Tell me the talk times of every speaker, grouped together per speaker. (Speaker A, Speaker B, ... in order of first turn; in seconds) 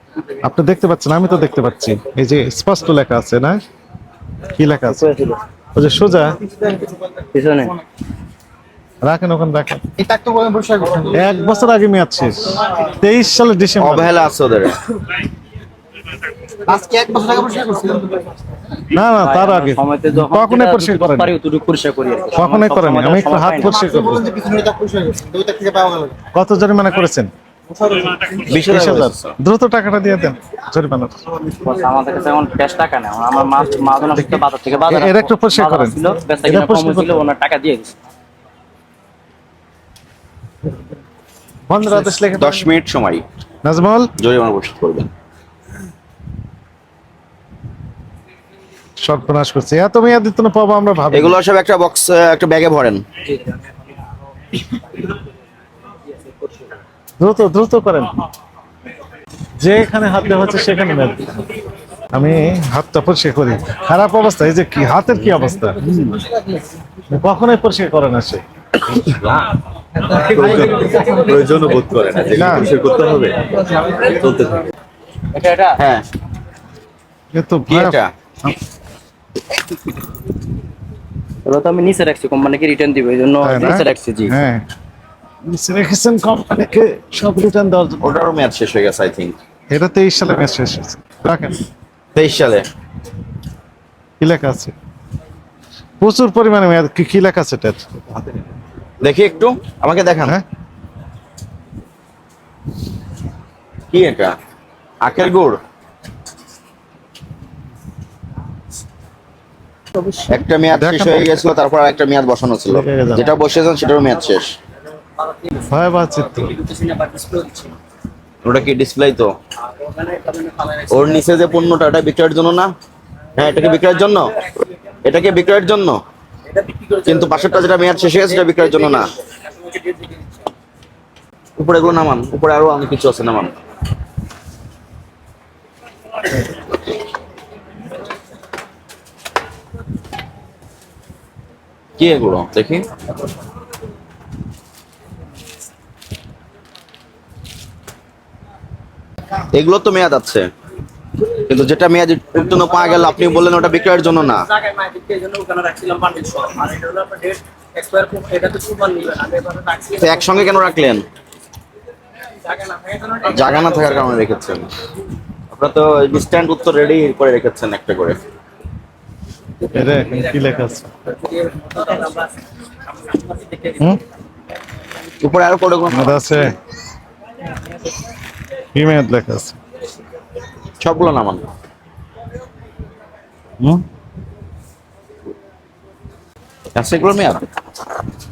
Speaker A: 0.4-3.6, 4.6-5.0, 5.7-6.4, 9.0-9.8, 11.1-14.1, 18.9-21.3, 22.3-24.4, 26.3-27.3, 28.5-31.1, 34.9-37.2, 41.7-42.7, 43.6-44.1, 49.0-51.4, 57.2-58.1, 59.6-61.4, 62.1-65.8, 67.1-68.4, 72.3-72.7, 77.3-78.6, 83.4-84.6, 85.5-88.1, 89.7-91.6, 94.2-94.7, 96.0-97.8, 110.7-111.5, 112.7-113.3, 115.7-116.5, 169.7-170.9, 175.9-176.5, 178.7-179.6
Speaker B: 4.9-5.4, 7.3-7.7, 19.2-23.8, 31.5-37.9, 53.2-53.6, 70.8-72.9, 75.3-75.8, 81.4-84.3, 110.0-110.3, 115.2-117.8, 119.6-121.5, 126.5-130.5, 152.4-160.7, 162.4-164.1, 169.6-172.4, 172.9-173.9
Speaker C: 10.0-11.1, 16.6-18.3, 23.9-26.2, 70.4-71.4, 72.1-72.5, 73.1-73.3, 73.9-74.6
Speaker D: 13.8-14.8, 28.5-29.3, 42.3-43.2, 44.2-45.1, 51.1-53.0, 65.9-66.2, 68.9-69.4, 70.1-73.5, 74.2-74.6, 75.8-76.0, 77.7-78.1, 88.0-89.3, 92.1-92.6, 99.0-100.4, 103.9-104.3, 105.0-105.6, 110.3-114.5, 118.4-119.3, 120.9-122.7, 123.4-124.3, 125.0-126.0, 127.1-129.1, 131.6-133.5, 142.0-142.8, 149.5-150.5, 151.4-154.4, 160.0-161.1, 163.3-164.7, 165.5-168.2, 175.2-176.4, 180.8-181.4, 186.8-187.4